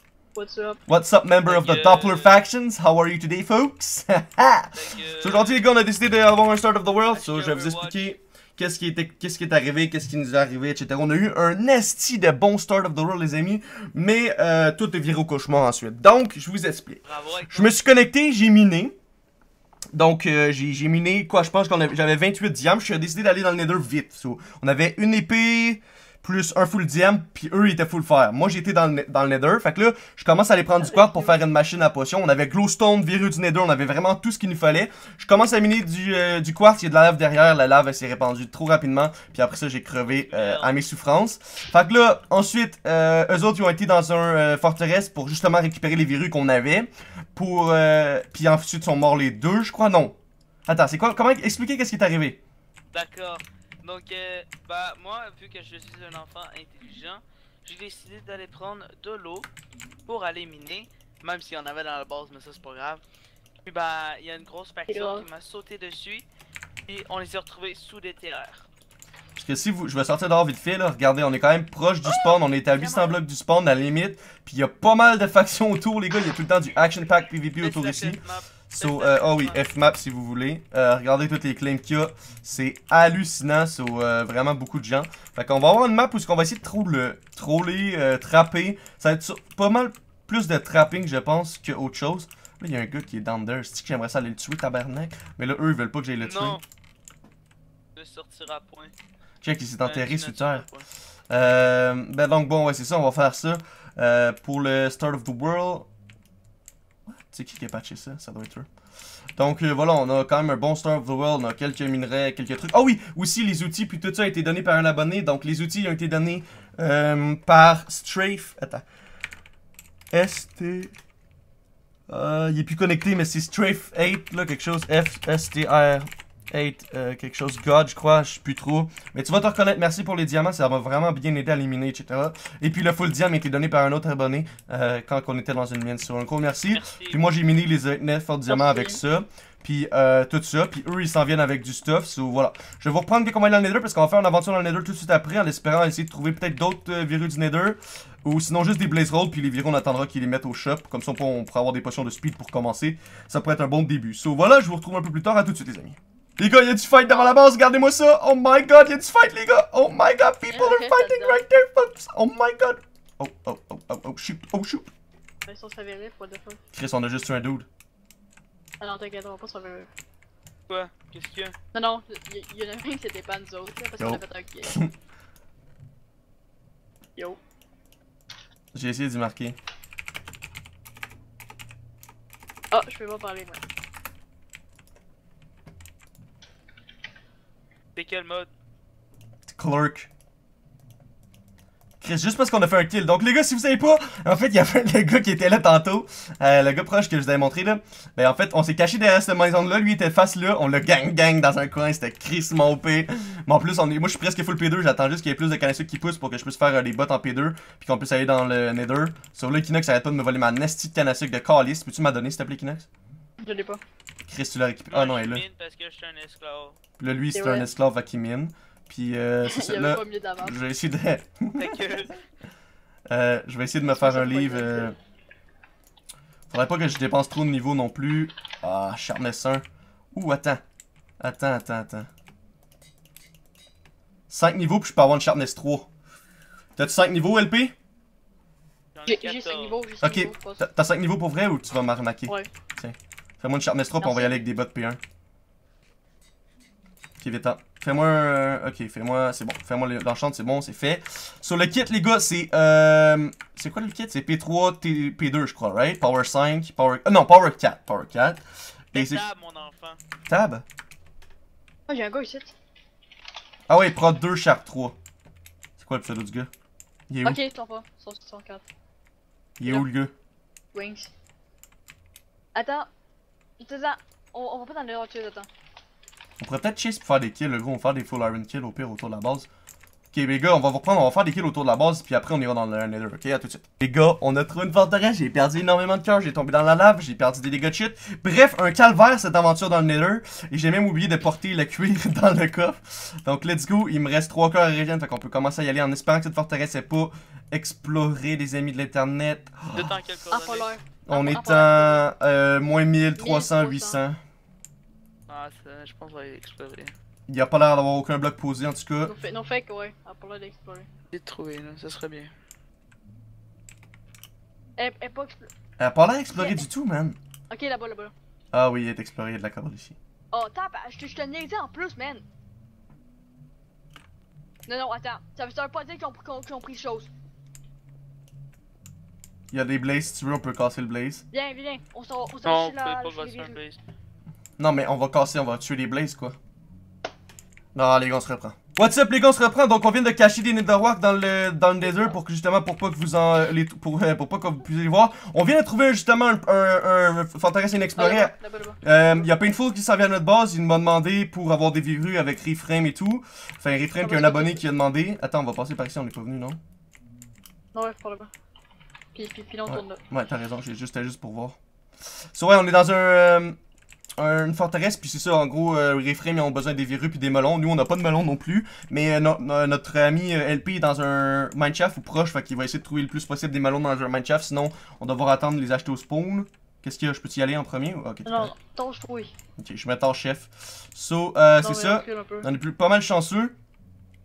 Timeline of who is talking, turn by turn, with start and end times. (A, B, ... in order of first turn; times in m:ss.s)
0:00.4-0:00.8 A
0:00.9-0:19.0 B
0:01.4-0:02.4 C
0:04.7-0:05.6 C
0:07.1-0:08.1 C
0:17.0-0:17.8 C
0:19.9-0:52.4 B
0:30.8-0:31.4 A
0:40.1-0:40.7 C
0:52.9-0:59.5 C
1:00.1-1:03.0 C
1:03.6-1:06.3 C
1:04.9-1:05.3 A
1:06.9-1:08.7 C
1:09.4-1:36.6 B
1:12.0-1:13.2 C
1:17.6-1:19.6 C
1:36.2-1:36.6 C
1:38.0-1:38.9 C
1:39.4-1:40.7 B
1:39.8-1:40.9 C
1:41.3-1:45.9 B
1:47.1-1:48.7 B
1:49.4-1:58.8 B
2:00.1-2:00.9 B
2:02.1-2:44.9 B
2:16.7-2:17.2 C
2:18.5-2:19.0 A
2:37.1-2:37.4 A
2:40.5-2:41.4 A
2:45.5-2:46.6 A
2:46.7-2:47.7 B
2:48.8-2:49.9 A
2:50.7-2:51.6 C
2:51.7-2:54.8 A
2:54.0-2:54.9 B
2:58.7-2:59.6 B
3:02.7-3:03.6 A
3:08.0-3:08.5 C
3:09.5-3:10.1 B
3:12.0-3:32.9 B
3:33.4-3:33.8 A
3:34.3-3:35.4 B
3:34.9-3:36.8 C
3:37.0-3:42.1 B
3:37.3-3:37.7 A
3:39.4-3:40.6 A
3:41.6-3:42.2 C
3:43.1-3:45.0 B
3:43.8-3:44.9 A
3:46.5-3:50.6 B
3:51.2-3:52.1 B
3:54.3-3:55.9 B
3:56.8-3:57.7 B
3:59.0-3:59.8 C
3:59.1-4:00.6 A
4:00.0-4:05.0 B
4:04.0-4:04.4 A
4:07.2-4:19.3 B
4:18.9-4:20.0 C
4:20.3-4:20.6 B
4:21.9-4:22.5 A
4:23.7-4:25.0 B
4:25.8-4:26.5 B
4:27.1-4:27.4 B
4:27.2-4:28.6 A
4:29.6-4:30.1 B
4:30.7-4:31.1 A
4:32.6-4:32.9 A
4:33.6-4:35.5 A
4:36.4-4:39.5 B
4:40.1-4:59.9 B
4:59.7-5:00.8 C
5:00.3-5:02.0 A
5:01.1-5:04.2 B
5:03.2-5:04.0 A
5:05.3-5:07.0 C
5:07.3-5:09.1 B
5:09.0-5:10.9 A
5:11.1-5:12.3 C
5:14.8-5:15.5 A
5:15.8-5:17.2 B
5:16.3-5:16.7 A
5:17.5-5:18.1 A
5:18.5-5:20.0 B
5:20.3-5:22.3 A
5:24.7-5:27.1 A
5:29.5-5:31.2 B
5:31.3-5:33.6 A
5:32.4-5:33.8 C
5:34.6-5:36.4 B
5:37.8-5:56.6 B
5:48.0-5:49.2 A
5:54.0-5:54.6 A
5:57.7-5:58.3 A
5:59.1-6:00.0 A
5:59.7-6:01.6 B
6:02.3-6:03.6 B
6:04.2-6:18.5 B
6:18.3-6:19.3 A
6:19.6-6:23.6 B
6:21.6-6:22.5 A